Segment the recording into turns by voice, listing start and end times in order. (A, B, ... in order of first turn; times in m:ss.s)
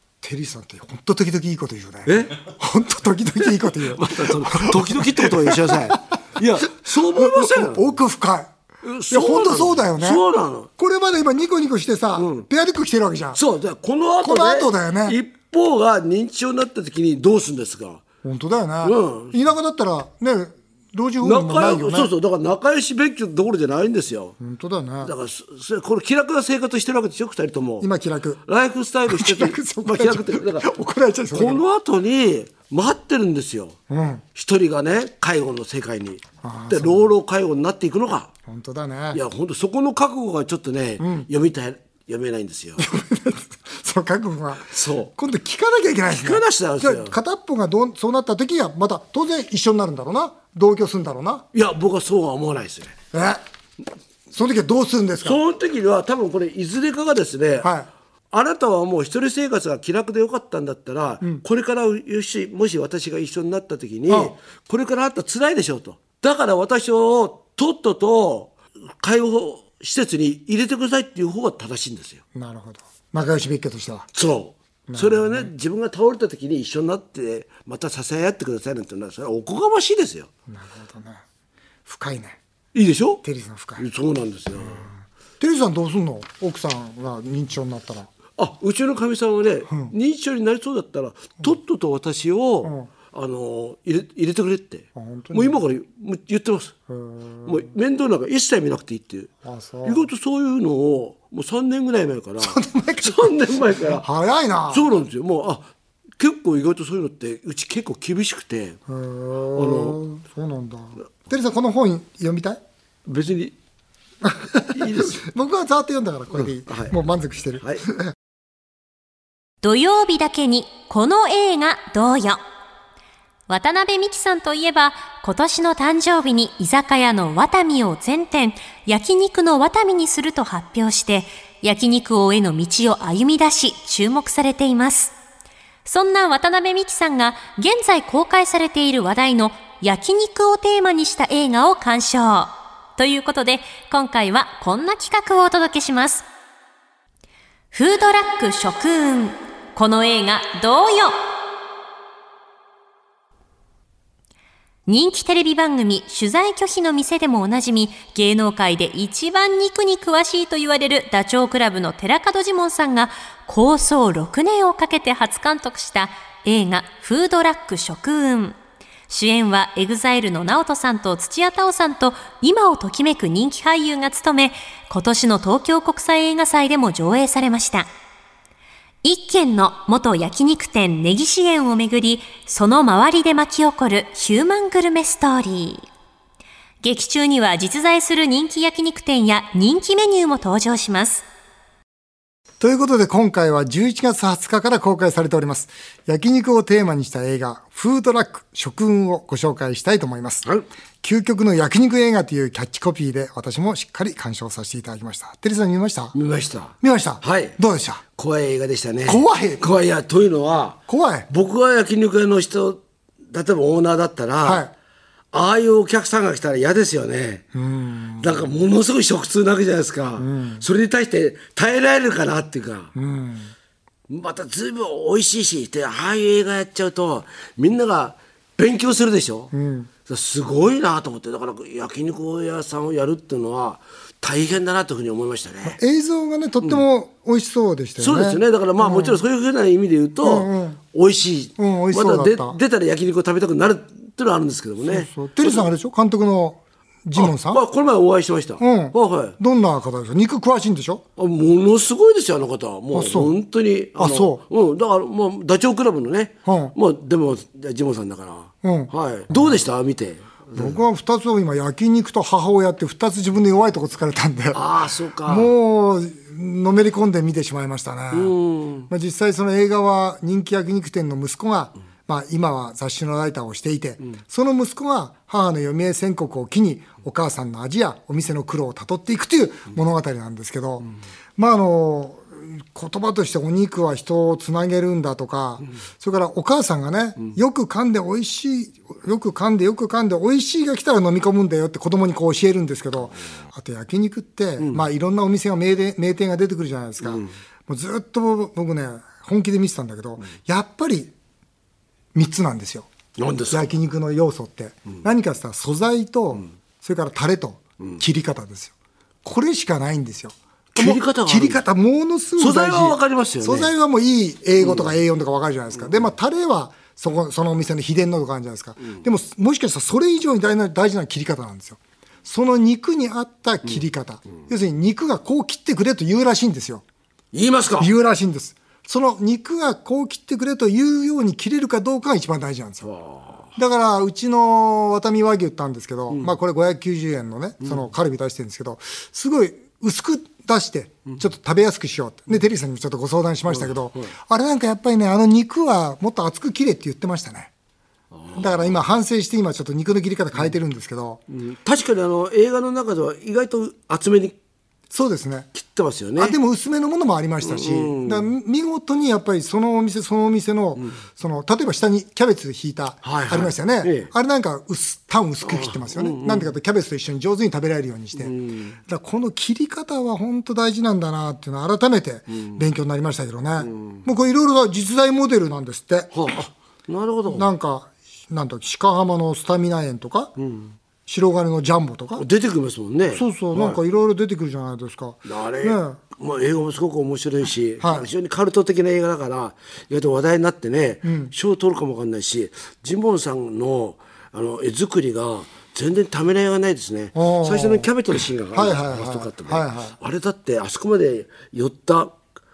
0:00.2-0:06.0 A
0:02.0-0:02.4 B
0:03.9-0:07.8 B
0:06.9-0:08.5 A
0:08.8-0:10.7 B
0:09.1-0:10.2 A
0:10.8-0:13.4 A
0:12.2-0:12.5 B
0:13.3-0:18.0 B
0:14.2-0:15.2 A
0:18.2-0:22.1 A
0:18.8-0:19.4 B
0:21.2-0:24.4 B
0:24.4-0:25.1 A
0:25.0-0:27.9 B
0:27.8-0:28.4 A
0:28.4-0:30.6 B
0:29.1-0:31.6 A
0:31.3-0:33.8 B
0:33.9-0:34.2 A
0:34.3-0:38.3 B
0:36.4-0:37.1 A
0:38.5-0:39.2 A
0:39.1-0:42.8 B
0:41.0-0:41.3 A
0:42.8-0:51.4 A
0:44.7-0:45.1 B
0:46.1-0:47.1 B
0:51.5-0:52.9 B
0:53.1-0:53.4 A
0:54.3-0:55.4 A
0:55.2-0:57.7 B
0:57.6-0:57.9 A
0:58.3-1:12.2 B
1:04.1-1:04.3 A
1:12.3-1:14.1 A
1:14.1-1:20.3 B
1:14.9-1:15.5 A
1:20.5-1:21.2 A
1:21.8-1:22.4 A
1:22.7-1:23.2 B
1:23.2-1:23.8 A
1:23.8-1:24.9 B
1:24.6-1:28.1 A
1:28.4-1:36.7 B
1:32.6-1:32.9 A
1:35.0-1:35.6 A
1:36.9-1:37.6 A
1:37.4-1:39.3 B
1:39.4-1:40.1 A
1:39.8-1:44.0 B
1:42.4-1:43.3 A
1:44.0-1:44.8 A
1:44.7-1:45.7 B
1:46.2-1:48.8 B
1:48.9-1:52.6 A
1:49.6-1:50.0 B
1:53.0-1:53.5 B
1:54.2-1:58.1 A
1:54.7-1:55.2 B
1:56.3-1:56.9 B
1:59.6-2:02.4 C
2:03.5-2:15.1 C
2:15.8-2:26.2 C
2:27.7-2:31.2 C
2:34.8-2:48.6 C
2:49.1-2:57.9 C
2:59.0-3:05.8 C
3:06.8-3:11.2 C
3:12.6-3:20.4 A
3:21.0-3:26.1 A
3:26.1-3:27.6 B
3:26.8-3:28.0 A
3:28.2-3:32.8 B
3:29.0-3:29.6 A
3:30.9-3:31.3 A
3:33.3-3:34.6 B
3:34.4-3:34.7 A
3:35.3-3:37.4 B
3:37.5-3:38.4 A
3:38.2-3:42.9 B
3:40.2-3:40.6 A
3:42.9-3:43.5 A
3:44.1-3:49.5 B
3:49.5-3:49.9 A
3:50.0-3:55.8 B
3:55.6-3:59.2 A
3:58.0-4:05.7 B
4:00.2-4:00.8 A
4:01.6-4:02.6 A
4:04.9-4:07.6 A
4:07.2-4:09.4 B
4:08.6-4:11.0 A
4:11.2-4:20.8 B
4:12.9-4:13.3 A
4:14.0-4:14.4 A
4:16.4-4:16.7 A
4:18.6-4:19.6 A
4:20.5-4:24.6 A
4:24.5-4:25.5 B
4:25.2-4:28.3 A
4:28.1-4:28.9 B
4:28.9-5:01.1 A
4:57.0-4:57.3 B
5:02.1-5:02.9 A
5:03.2-5:03.7 B
5:03.5-5:08.7 A
5:09.2-5:26.8 A
5:10.7-5:11.6 B
5:12.4-5:13.7 B
5:14.6-5:14.9 B
5:27.3-5:27.9 B
5:27.8-5:32.9 A
5:32.8-5:33.4 B
5:33.6-5:47.5 A
5:43.5-5:44.1 B
5:48.1-5:48.5 B
5:48.3-5:51.2 A
5:51.3-5:54.3 B
5:54.9-5:55.5 A
5:55.6-5:56.4 B
5:56.2-6:08.3 A
5:57.4-5:58.3 B
6:03.0-6:04.1 B
6:05.4-6:06.5 B
6:08.2-6:08.8 B
6:08.9-6:16.1 A
6:13.6-6:14.0 B
6:16.1-6:17.5 B
6:17.3-6:20.3 A
6:20.4-6:20.7 B
6:21.1-6:22.2 A
6:22.2-6:23.8 B
6:23.1-6:26.0 A
6:25.2-6:42.1 B
6:27.8-6:28.1 A
6:31.0-6:31.3 A
6:37.1-6:37.9 A
6:38.5-6:40.0 A